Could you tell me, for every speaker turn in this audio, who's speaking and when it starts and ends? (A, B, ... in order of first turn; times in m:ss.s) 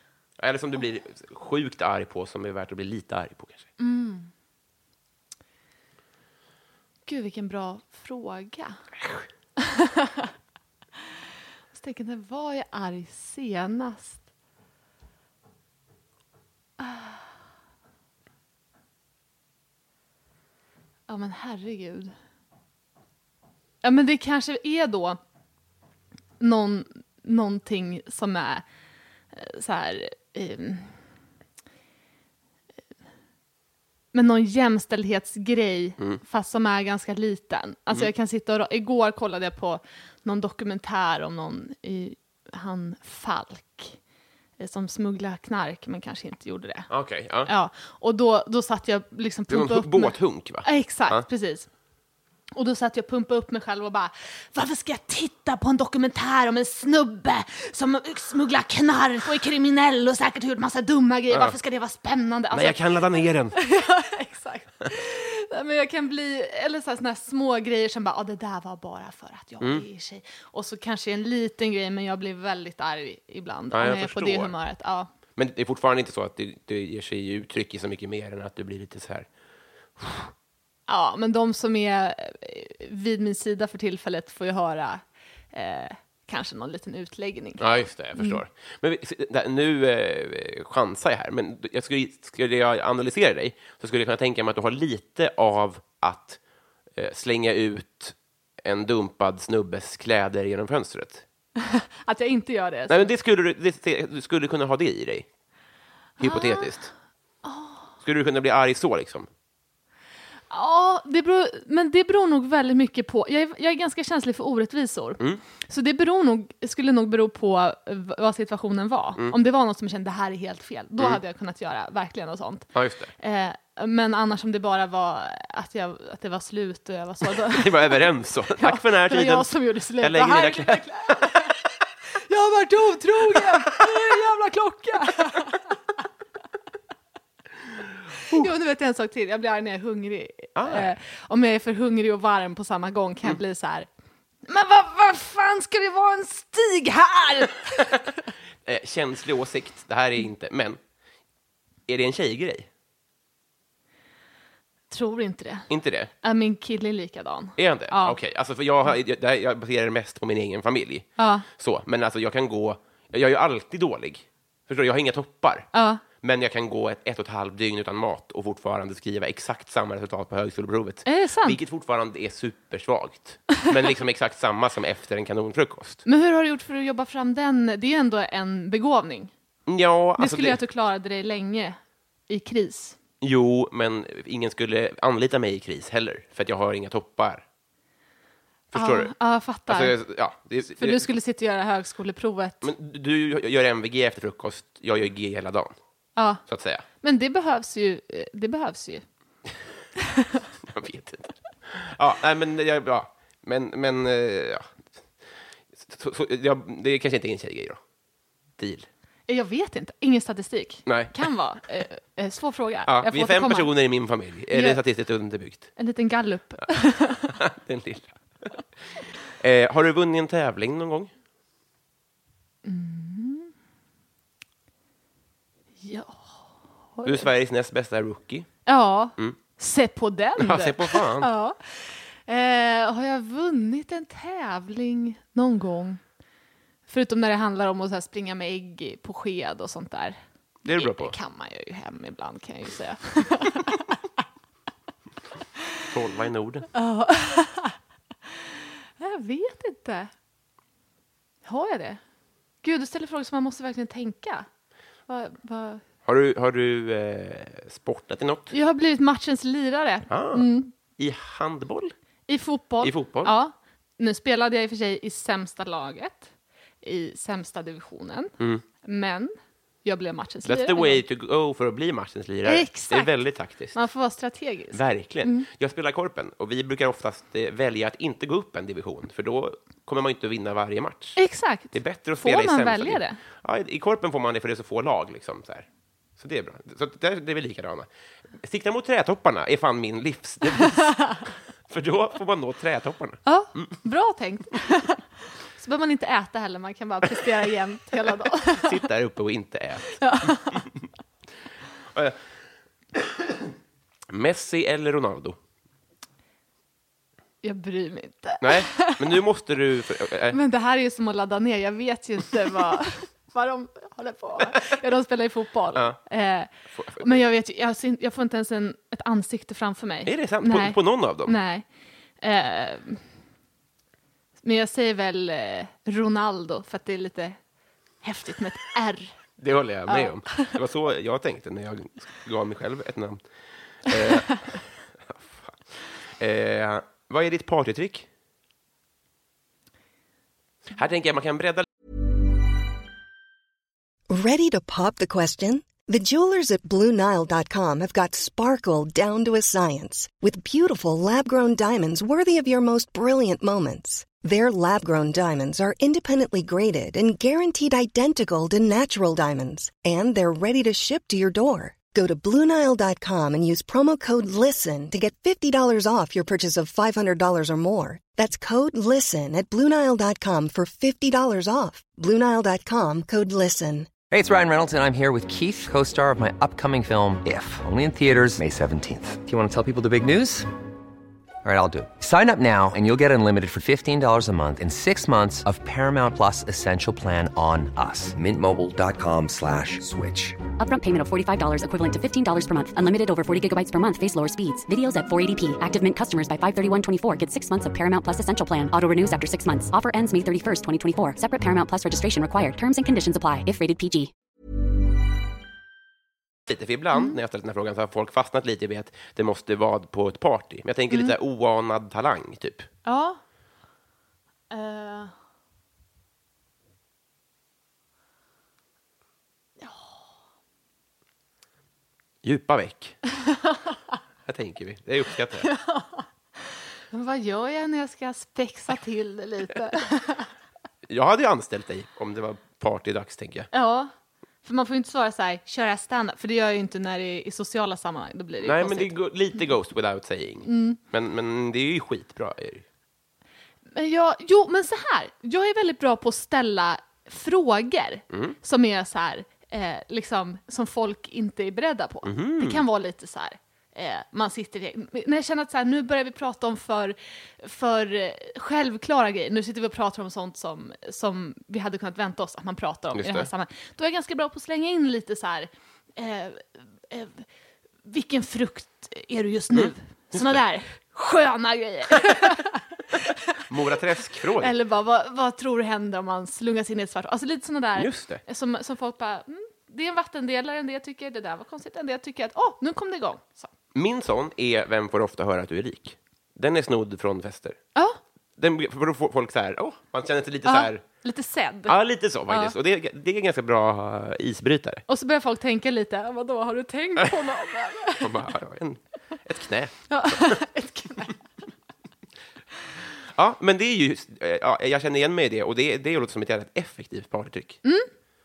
0:00.4-0:03.7 A
0:03.8-0:04.3 B
0:07.1-0:08.8 B
0:09.6-0:10.3 B
0:11.7-0:14.2 B
0:16.8-0:17.3 B
0:21.1-0:22.1 B
0:23.8-0:25.2 B
0:26.4-0:28.6 B
0:29.3-0:31.0 B
0:34.1-0:44.0 B
0:44.6-0:46.9 B
0:46.9-0:47.5 A
0:47.4-0:51.7 B
0:49.5-0:51.2 A
0:52.5-1:03.0 B
1:01.3-1:01.6 A
1:02.5-1:03.6 A
1:03.5-1:15.1 B
1:09.6-1:09.9 A
1:13.7-1:14.6 A
1:15.4-1:19.3 A
1:20.0-1:20.3 A
1:20.9-1:28.4 B
1:27.6-1:36.4 A
1:37.0-1:41.2 A
1:41.6-1:43.1 B
1:42.9-1:45.3 A
1:46.2-1:46.9 B
1:46.2-1:46.9 A
1:47.4-1:47.9 B
1:48.0-1:49.3 A
1:50.5-2:08.0 B
2:02.8-2:03.1 A
2:07.3-2:11.4 A
2:08.6-2:11.6 B
2:12.3-2:15.7 B
2:18.3-2:23.9 B
2:20.6-2:20.9 A
2:24.5-2:28.1 B
2:28.6-2:30.8 A
2:31.9-2:32.7 A
2:34.9-2:35.7 B
2:35.7-2:36.1 A
2:36.2-2:38.2 B
2:37.6-2:45.7 A
2:41.2-2:41.5 B
2:45.7-2:46.0 B
2:46.2-2:56.0 A
2:51.0-2:51.6 B
2:56.0-2:59.3 B
2:59.7-3:00.6 A
3:00.2-3:01.8 B
3:02.3-3:03.0 B
3:03.2-3:07.4 A
3:08.7-3:09.2 A
3:08.7-3:10.0 B
3:09.7-3:11.1 A
3:10.8-3:12.7 B
3:12.6-3:15.8 A
3:16.2-3:16.4 B
3:16.4-3:16.8 A
3:17.0-3:19.0 B
3:20.6-3:24.8 A
3:25.7-3:27.8 A
3:28.6-3:28.9 A
3:29.3-3:33.7 B
3:30.9-3:31.2 A
3:32.9-3:35.7 A
3:34.5-3:34.8 B
3:35.8-3:37.4 B
3:37.3-3:38.5 A
3:39.4-3:41.1 A
3:42.6-3:43.5 B
3:45.8-3:46.4 B
3:47.0-3:47.3 B
3:47.0-3:48.5 A
3:48.7-3:56.0 B
3:50.4-3:51.3 A
3:56.9-4:00.2 B
4:00.6-4:01.2 A
4:00.8-4:03.8 B
4:05.9-4:06.7 A
4:06.7-4:07.8 B
4:09.0-4:10.1 B
4:11.4-4:12.0 B
4:12.6-4:14.5 B
4:15.1-4:15.8 B
4:16.0-4:18.5 A
4:18.5-4:20.7 B
4:20.1-4:21.9 A
4:22.3-4:26.3 B
4:22.8-4:23.4 A
4:26.8-4:31.0 B
4:28.4-4:28.6 A
4:30.4-4:33.8 A
4:32.4-4:33.2 B
4:33.7-4:35.5 B
4:34.7-4:41.2 A
4:41.2-4:43.2 B
4:41.7-4:45.7 A
4:46.2-4:47.9 A
4:48.4-4:51.1 A
4:50.6-4:51.2 B
4:51.7-4:53.8 A
4:53.3-4:55.0 B
4:55.6-4:58.8 B
4:58.5-5:00.8 A
5:00.0-5:00.6 B
5:01.9-5:02.2 A
5:03.0-5:03.4 A
5:04.1-5:05.4 A
5:07.4-5:09.2 B
5:08.4-5:10.4 A
5:10.3-5:21.6 B
5:16.7-5:17.2 A
5:20.0-5:21.4 A
5:22.2-5:23.0 B
5:24.4-5:27.4 B
5:28.0-5:29.2 B
5:29.4-5:35.6 A
5:29.9-5:30.5 B
5:36.2-5:38.1 A
5:40.7-5:41.7 A
5:44.1-6:14.0 C
6:14.1-6:20.5 D
6:21.4-6:30.4 D
6:30.6-6:44.1 E
6:46.5-6:52.7 A
6:52.8-6:53.2 B
6:54.5-6:55.1 B
6:59.6-7:00.0 B
7:02.2-7:03.0 A
7:04.3-7:05.5 A
7:05.4-7:06.1 B
7:06.9-7:10.3 B
7:10.9-7:13.5 A
7:13.5-7:13.9 B
7:14.4-7:19.0 B
7:18.4-7:22.6 A
7:20.4-7:20.8 B
7:23.7-7:47.3 B
7:28.1-7:28.4 A
7:32.0-7:32.6 A
7:43.0-7:43.3 A
7:47.9-7:52.6 B
7:49.5-7:50.4 A
7:53.5-7:54.6 A
7:54.4-8:03.5 B
7:57.8-7:58.2 A
8:03.7-8:07.6 A
8:08.4-8:10.8 A
8:10.4-8:12.6 B
8:11.7-8:14.8 A
8:14.9-8:18.2 B
8:18.0-8:20.4 A
8:19.9-8:21.2 B
8:23.1-8:27.6 A